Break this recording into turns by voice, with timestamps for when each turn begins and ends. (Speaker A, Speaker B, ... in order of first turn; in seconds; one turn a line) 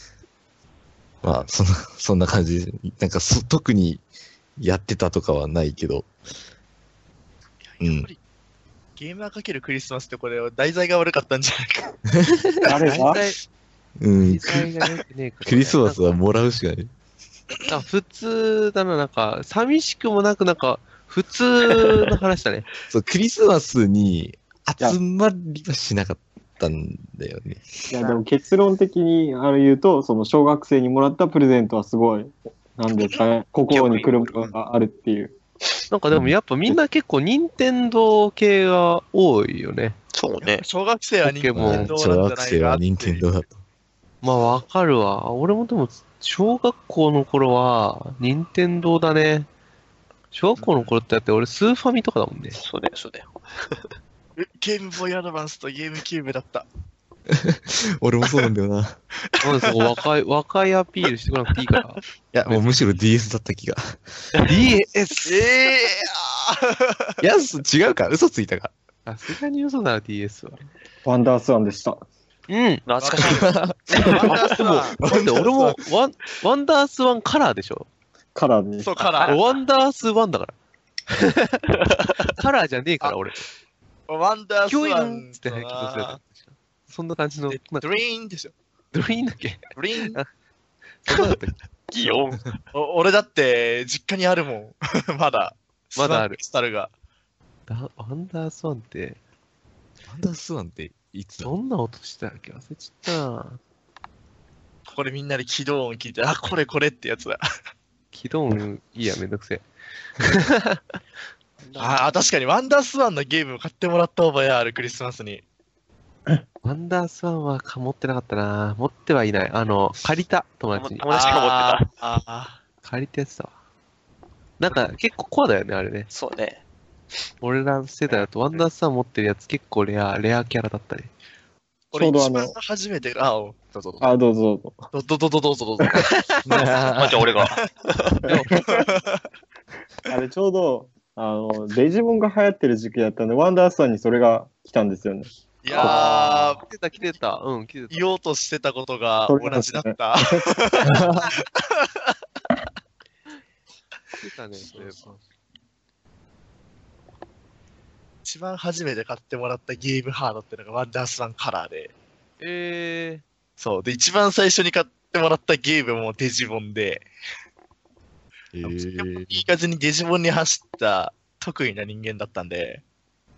Speaker A: 1.2-1.5
Speaker B: 1.2-4.0
Speaker B: 4.6-6.1
Speaker A: 7.7-8.2
Speaker B: 7.8-8.1
Speaker A: 9.0-12.0
Speaker A: 12.6-12.9
Speaker C: 12.6-13.4
Speaker D: 12.6-13.2
Speaker B: 14.0-14.6
Speaker C: 14.2-16.1
Speaker B: 15.4-16.9
Speaker C: 17.7-22.7
Speaker B: 22.9-27.7
Speaker D: 27.9-35.4
Speaker E: 33.7-34.5
Speaker C: 35.9-40.0
Speaker E: 40.1-40.6
Speaker A: 40.4-43.3
Speaker C: 41.2-41.9
Speaker B: 41.5-43.6
Speaker C: 44.2-49.5
Speaker C: 50.3-52.6
Speaker E: 52.6-53.8
Speaker A: 54.4-56.6
Speaker B: 57.3-59.0
Speaker C: 59.4-62.6
Speaker B: 62.3-64.2
Speaker C: 64.4-65.5
Speaker A: 65.2-67.1
Speaker B: 67.2-68.7
Speaker C: 69.1-70.6
Speaker D: 71.0-72.0
Speaker C: 72.5-72.8
Speaker E: 72.9-73.5
Speaker A: 73.0-75.2
Speaker B: 73.2-74.0
Speaker C: 73.9-77.9
Speaker B: 75.0-75.8
Speaker D: 78.3-79.0
Speaker A: 78.8-79.4
Speaker E: 79.0-79.4
Speaker C: 79.2-80.5
Speaker C: 81.1-81.7
Speaker E: 81.7-82.3
Speaker C: 82.4-83.5
Speaker A: 84.1-86.2
Speaker C: 84.7-87.9
Speaker A: 87.5-88.5
Speaker C: 88.9-90.3
Speaker A: 89.8-90.2
Speaker C: 91.0-91.5
Speaker E: 91.9-92.6
Speaker A: 92.7-96.9
Speaker C: 96.0-96.4
Speaker C: 97.7-99.2
Speaker B: 100.1-101.5
Speaker C: 101.4-103.6
Speaker A: 104.9-107.4
Speaker C: 108.1-109.6
Speaker C: 110.2-110.8
Speaker E: 111.6-112.0
Speaker A: 111.8-115.4
Speaker C: 116.6-121.0
Speaker E: 120.8-121.9
Speaker A: 121.1-122.6
Speaker C: 122.8-123.5
Speaker C: 124.6-126.1
Speaker E: 126.1-126.6
Speaker C: 127.4-131.1
Speaker E: 128.1-128.6
Speaker A: 131.9-133.6
Speaker D: 131.9-132.6
Speaker E: 133.7-134.0
Speaker D: 134.0-134.9
Speaker A: 134.9-136.1
Speaker C: 135.9-136.4
Speaker B: 136.4-137.5
Speaker E: 136.9-138.3
Speaker C: 138.2-138.6
Speaker D: 138.6-138.8
Speaker A: 138.6-139.2
Speaker D: 140.1-146.4
Speaker A: 145.6-146.6
Speaker C: 145.7-148.0
Speaker A: 147.9-151.9
Speaker D: 149.3-151.2
Speaker C: 154.2-155.3
Speaker A: 154.7-155.2
Speaker A: 158.2-161.9
Speaker C: 162.4-163.2
Speaker A: 163.6-167.1
Speaker B: 168.5-169.4
Speaker A: 168.6-172.8